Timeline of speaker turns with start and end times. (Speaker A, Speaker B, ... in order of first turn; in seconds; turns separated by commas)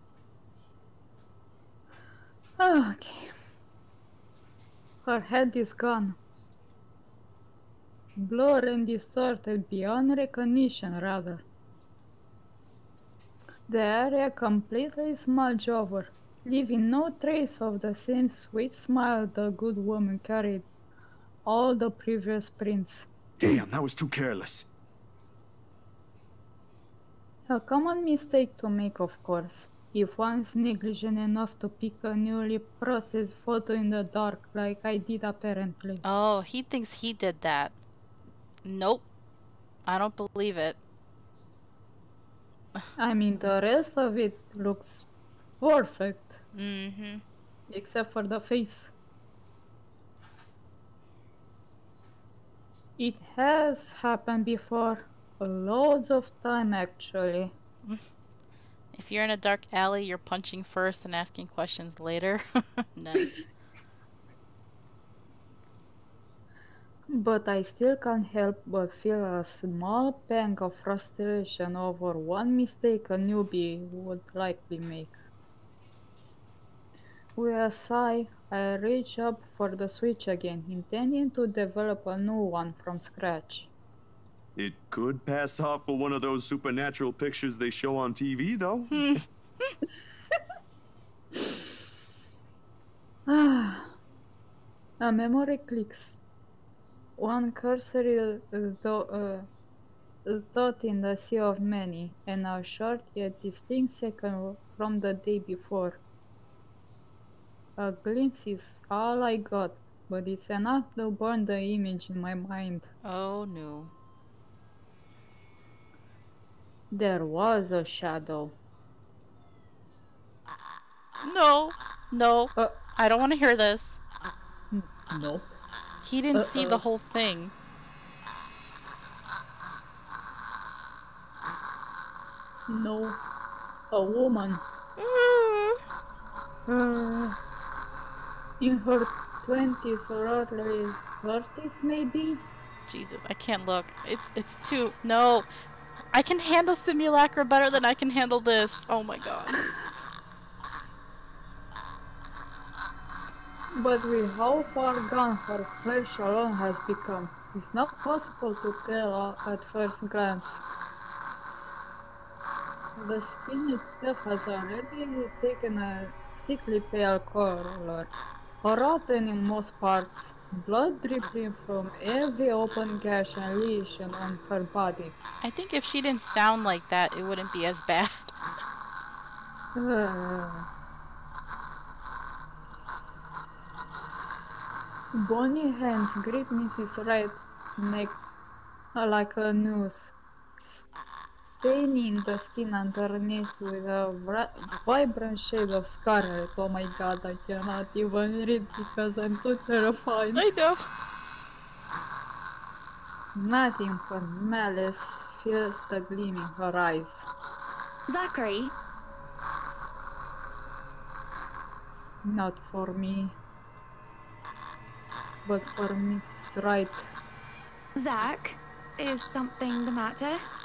Speaker A: 2.6-3.3, Speaker A: 5.0-6.2, Speaker A: 8.2-11.4, Speaker A: 13.7-20.6, Speaker A: 21.4-23.1, Speaker B: 23.4-24.7, Speaker A: 27.5-36.0, Speaker C: 36.0-37.7, Speaker C: 38.6-39.0, Speaker C: 39.9-40.8, Speaker A: 43.0-45.0, Speaker A: 45.6-46.4, Speaker C: 46.5-47.2, Speaker A: 47.7-48.9, Speaker A: 53.0-57.5, Speaker C: 58.9-63.4, Speaker A: 67.1-75.2, Speaker A: 77.3-83.7, Speaker B: 84.5-89.1, Speaker C: 88.9-89.7, Speaker A: 93.3-94.0, Speaker A: 95.0-96.2, Speaker A: 97.2-99.5, Speaker A: 100.2-106.0, Speaker A: 107.8-112.9, Speaker C: 113.0-113.9, Speaker A: 116.9-118.5, Speaker C: 121.2-124.0, Speaker A: 124.7-125.5, Speaker C: 126.0-127.5, Speaker A: 126.3-126.8, Speaker A: 132.7-133.2, Speaker A: 133.9-134.6, Speaker C: 135.0-135.8, Speaker A: 136.7-137.4, Speaker A: 138.6-142.4, Speaker C: 142.9-145.5, Speaker C: 146.1-149.7, Speaker A: 153.7-160.6, Speaker A: 163.0-175.1, Speaker C: 175.4-178.3, Speaker A: 179.7-180.7, Speaker A: 185.1-188.2, Speaker A: 188.9-190.1, Speaker A: 191.6-200.5, Speaker C: 200.3-200.9, Speaker A: 203.3-207.2, Speaker D: 208.1-208.7, Speaker A: 212.2-213.4, Speaker A: 215.4-217.1, Speaker D: 217.9-220.4